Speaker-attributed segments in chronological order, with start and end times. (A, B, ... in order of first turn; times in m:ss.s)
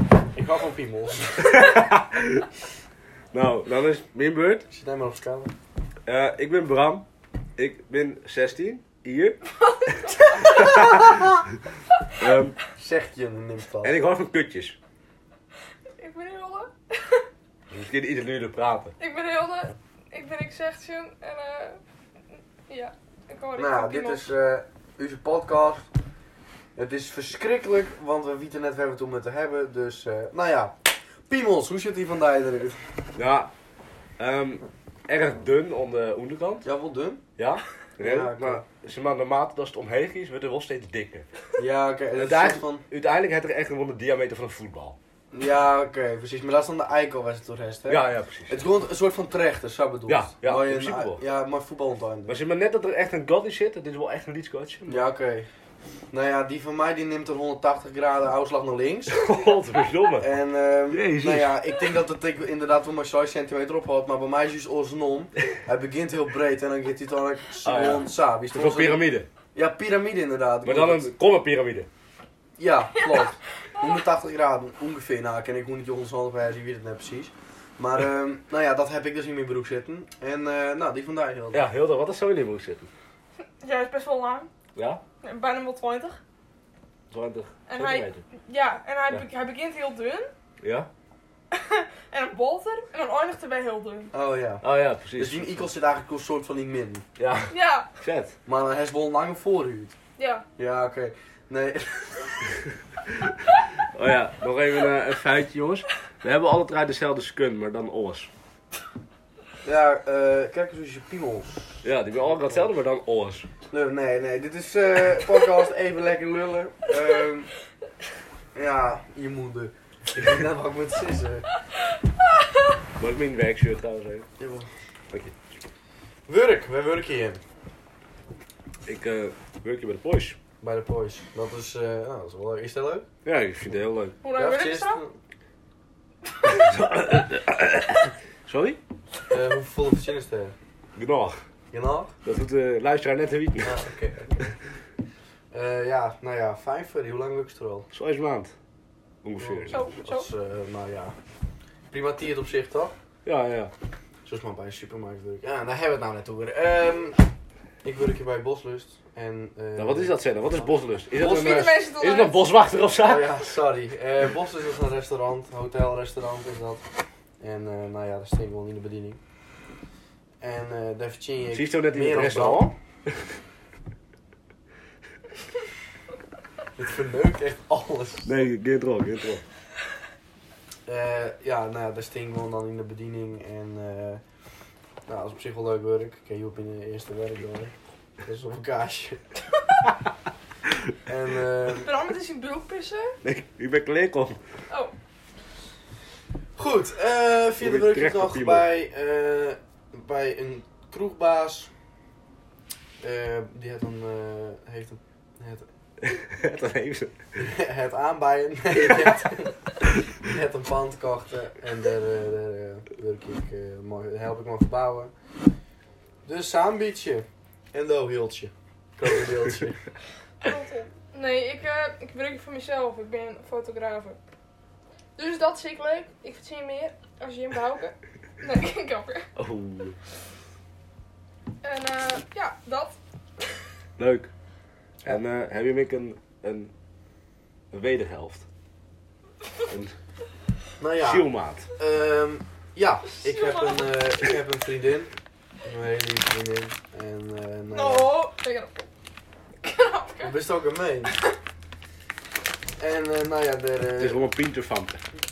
0:00.3-0:01.7 A
0:01.5-0:02.5 B
0:03.3-0:04.7 B
0:04.7-0:05.5 A
0:06.1-0:07.0 B
0:07.6-0:09.4 B
0:09.6-0:11.0 C
0:10.4-0:11.4 B
0:12.2-0:12.6 B
0:12.8-0:14.0 A
0:13.8-0:14.8 B
0:16.0-0:17.2 C
0:17.7-0:18.9 B
0:19.0-0:21.8 C
0:22.7-0:24.3 C
0:23.6-0:25.9 A
0:26.8-0:30.7 A
0:31.3-0:32.8 A
0:33.2-0:33.5 B
0:34.2-0:36.6 B
0:36.6-0:37.2 A
0:37.4-0:41.3 B
0:38.0-0:38.6 A
0:41.6-0:42.8 A
0:42.2-0:45.0 B
0:45.3-0:52.4 A
0:47.9-0:48.6 B
0:50.1-0:51.2 B
0:52.3-0:55.1 B
0:54.9-0:55.5 A
0:56.1-0:59.2 A
0:59.1-1:00.3 B
1:00.2-1:09.0 A
1:00.9-1:01.6 B
1:07.6-1:09.3 B
1:09.5-1:11.1 A
1:10.6-1:11.9 B
1:12.6-1:21.7 A
1:21.5-1:22.9 B
1:23.6-1:24.5 C
1:24.7-1:25.0 B
1:25.2-1:26.2 C
1:27.1-1:28.2 B
1:27.7-1:30.3 C
1:30.6-1:30.9 B
1:31.5-1:34.1 C
1:34.1-1:34.6 A
1:34.6-1:35.7 B
1:35.2-1:37.0 A
1:37.2-1:38.3 B
1:37.5-1:37.9 C
1:38.4-1:40.0 A
1:40.2-1:40.4 C
1:40.6-1:42.5 A
1:43.9-1:48.3 B
1:49.6-1:51.5 A
1:51.8-1:53.5 B
1:52.2-1:52.6 A
1:53.7-1:57.5 A
1:58.5-2:01.5 A
2:03.0-2:04.3 B
2:04.4-2:04.7 A
2:06.3-2:07.4 A
2:08.9-2:10.4 B
2:10.6-2:13.1 A
2:13.2-2:14.2 B
2:14.2-2:15.0 C
2:14.4-2:15.2 A
2:16.4-2:18.8 B
2:19.3-2:20.6 A
2:21.0-2:21.4 B
2:21.7-2:22.1 A
2:22.2-2:23.8 B
2:23.6-2:24.4 A
2:25.5-2:27.9 A
2:27.9-2:28.5 B
2:29.2-2:29.8 B
2:29.4-2:31.2 A
2:29.7-2:30.3 C
2:31.9-2:32.9 A
2:33.2-2:33.7 B
2:34.2-2:37.2 A
2:37.8-2:41.7 A
2:39.8-2:43.4 B
2:41.2-2:42.6 C
2:43.0-2:46.8 A
2:47.4-2:49.2 A
2:50.4-2:52.8 A
2:51.5-2:53.3 B
2:56.8-2:58.4 A
2:58.2-2:59.4 B
3:00.9-3:04.2 A
3:05.1-3:09.2 A
3:11.1-3:11.9 A
3:11.7-3:13.2 C
3:13.2-3:14.4 B
3:16.6-3:21.7 A
3:17.6-3:18.7 B
3:23.0-3:25.7 A
3:26.0-3:27.2 B
3:27.4-3:29.6 A
3:30.2-3:35.1 A
3:36.2-3:39.8 A
3:40.4-3:44.2 C
3:45.2-3:49.3 C
3:49.4-3:50.0 B
3:51.6-3:53.0 C
3:54.0-3:54.3 B
3:55.0-3:56.7 B
3:57.7-3:58.4 B
3:59.7-3:59.9 B
4:00.8-4:05.1 A
4:01.0-4:01.7 B
4:03.0-4:04.3 C
4:05.6-4:08.1 A
4:07.7-4:08.9 C
4:09.6-4:10.4 C
4:10.2-4:11.1 A
4:11.0-4:11.3 C
4:12.8-4:14.2 A
4:14.0-4:15.0 B